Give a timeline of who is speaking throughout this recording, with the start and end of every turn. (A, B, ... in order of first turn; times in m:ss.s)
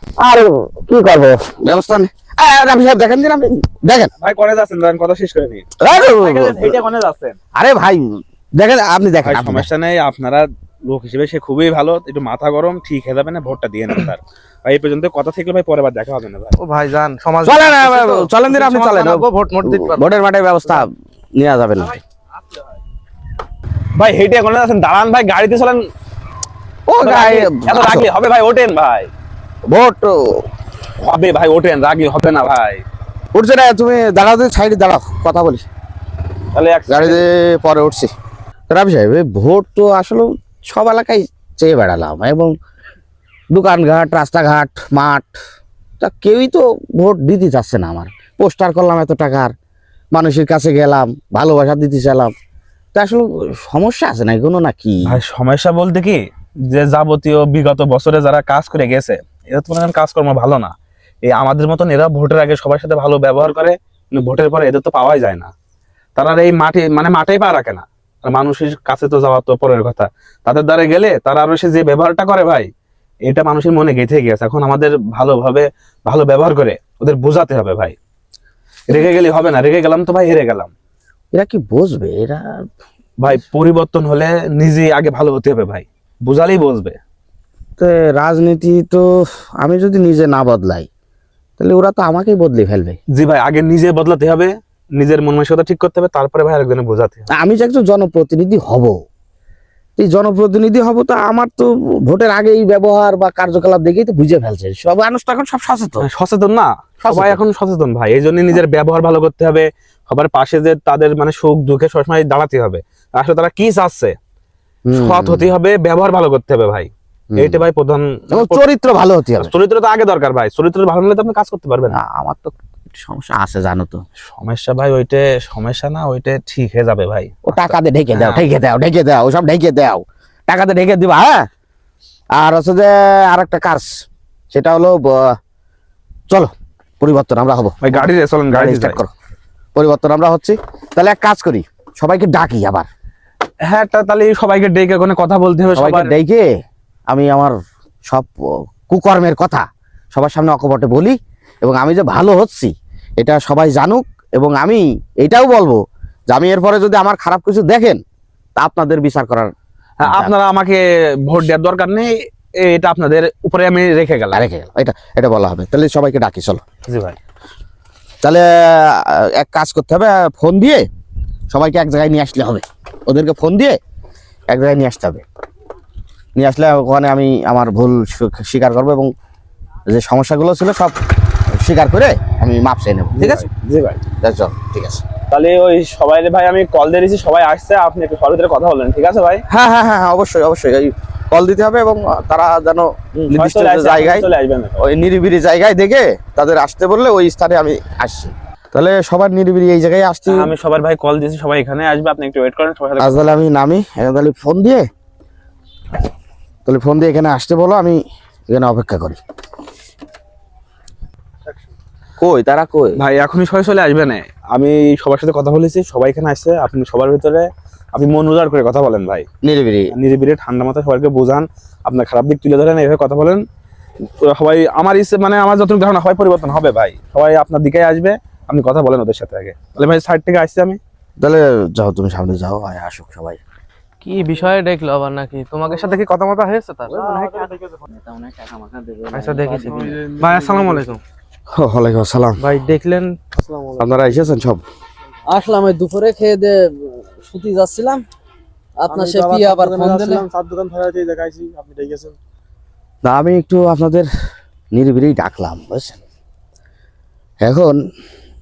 0:00.2-0:04.1 A
0:04.2-0:07.4 B
0:05.8-0:06.8 A
0:07.5-0:09.7 A
0:09.2-0:16.6 B
0:16.6-0:20.1 C
0:17.4-0:22.0 A
0:23.9-0:25.8 B
0:26.9-0:28.1 A
0:27.0-0:29.1 B
0:29.7-0:30.4 A
0:31.0-0:32.8 B
0:33.3-0:35.6 A
0:36.5-0:37.2 B
0:36.9-0:38.1 A
0:38.7-0:42.5 A
0:43.5-0:45.4 A
0:46.0-0:49.5 A
0:50.1-0:52.3 A
0:52.9-0:55.2 A
0:55.0-1:05.5 B
1:06.2-1:12.7 B
1:13.2-1:18.0 B
1:18.9-1:20.7 B
1:21.3-1:22.7 A
1:23.2-1:27.0 B
1:27.8-1:29.1 A
1:29.6-1:30.9 A
1:31.6-1:33.0 A
1:33.1-1:37.3 B
1:37.3-1:39.0 A
1:40.0-1:46.0 A
1:46.0-1:54.2 B
1:47.0-1:47.4 A
1:54.8-1:55.5 A
1:54.9-1:58.6 B
1:57.3-1:57.6 A
1:58.3-1:59.5 A
1:59.4-2:02.0 B
2:01.9-2:04.0 A
2:04.3-2:08.4 B
2:07.4-2:11.5 A
2:12.4-2:13.9 A
2:14.5-2:15.4 A
2:16.3-2:19.1 A
2:17.8-2:19.0 B
2:19.7-2:22.9 A
2:23.7-2:26.1 B
2:25.7-2:26.5 A
2:27.1-2:27.5 A
2:28.1-2:38.0 A
2:38.6-2:40.3 A
2:40.0-2:44.4 B
2:44.3-2:46.6 A
2:46.9-2:47.2 B
2:48.2-2:50.8 A
2:51.5-2:53.8 A
2:54.5-2:55.2 A
2:56.4-2:59.1 A
2:59.9-3:01.0 A
3:01.5-3:03.4 A
3:03.2-3:04.0 B
3:04.2-3:05.0 A
3:05.3-3:09.4 B
3:09.5-3:14.3 A
3:13.1-3:14.8 B
3:14.8-3:20.5 A
3:20.3-3:23.3 B
3:23.0-3:24.9 A
3:26.6-3:29.2 A
3:32.2-3:33.0 A
3:33.0-3:39.2 B
3:39.4-3:39.9 A
3:39.9-3:43.4 B
3:44.2-3:50.8 B
3:51.2-3:53.4 A
3:54.0-3:57.5 C
3:56.9-3:57.8 D
3:57.9-4:00.0 E
3:59.1-4:01.0 C
3:59.7-4:00.9 D
4:01.5-4:02.4 A
4:02.4-4:03.2 C
4:03.3-4:04.2 D
4:03.8-4:04.6 A
4:05.3-4:08.0 E
4:08.8-4:10.2 E
4:08.9-4:12.2 D
4:13.0-4:14.1 A
4:14.7-4:16.0 A
4:17.4-4:17.8 A